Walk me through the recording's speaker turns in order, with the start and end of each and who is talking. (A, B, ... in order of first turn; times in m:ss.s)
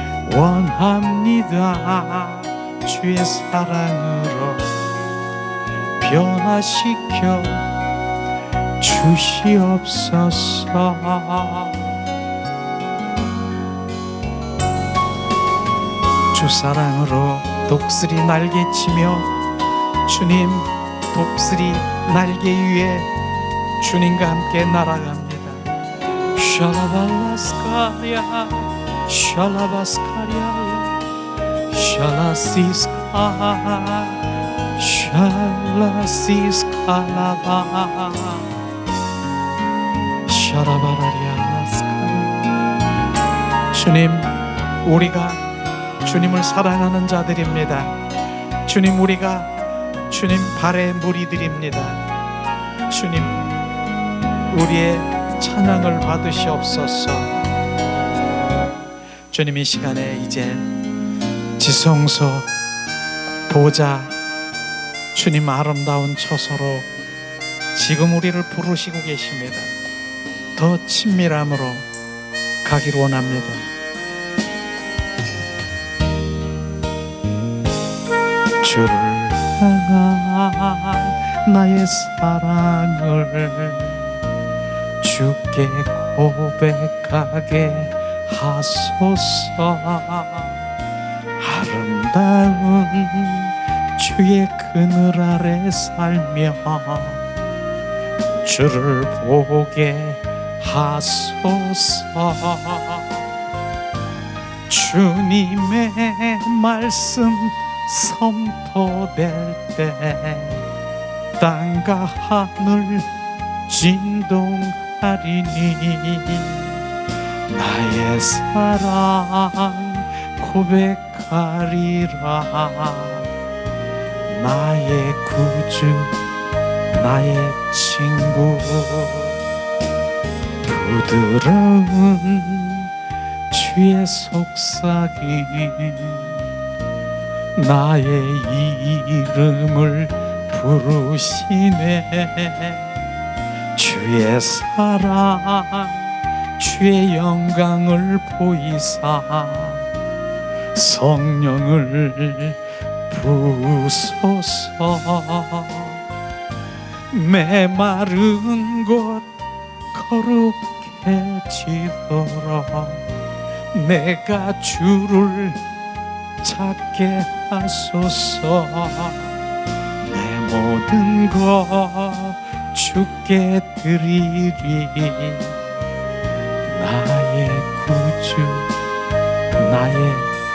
0:00.2-0:04.7 A
0:06.0-0:07.6 A
0:08.8-0:11.9 A
0:16.3-0:19.3 A
0:20.1-0:23.1 A
0:23.8-0:25.7 A
0:26.3-0:31.0 A
0:31.7-0:34.2 A
0:34.8-0:38.5 A
0:40.3-0:42.4 A
0:43.7-0:44.3 A
0:44.8-0:45.4 A
0:46.0-0:48.0 A
0:48.7-0:49.5 A
0:50.1-0:52.0 A
0:52.9-0:53.4 A
0:54.5-0:57.5 A
0:59.3-1:00.7 A
1:01.6-1:02.5 A
1:03.5-1:04.1 A
1:05.1-1:06.9 A
1:07.7-1:09.7 A
1:10.6-1:11.9 A
1:12.6-1:13.7 A
1:18.6-1:24.1 A
1:25.0-1:30.6 A
1:31.4-1:37.3 A
1:38.4-1:43.2 A
1:44.7-1:50.7 A
1:51.4-1:53.1 A
1:53.7-1:56.8 A
1:57.5-2:03.3 A
2:04.3-2:06.1 A
2:06.9-2:09.4 A
2:10.6-2:12.9 A
2:13.5-2:16.4 A
2:17.6-2:22.9 A
2:23.8-2:29.9 A
2:30.7-2:36.0 A
2:37.1-2:39.3 A
2:39.9-2:43.0 A
2:43.7-2:45.6 A
2:46.4-2:49.3 A
2:50.0-2:55.6 A
2:56.7-2:58.7 A
2:59.6-3:00.3 A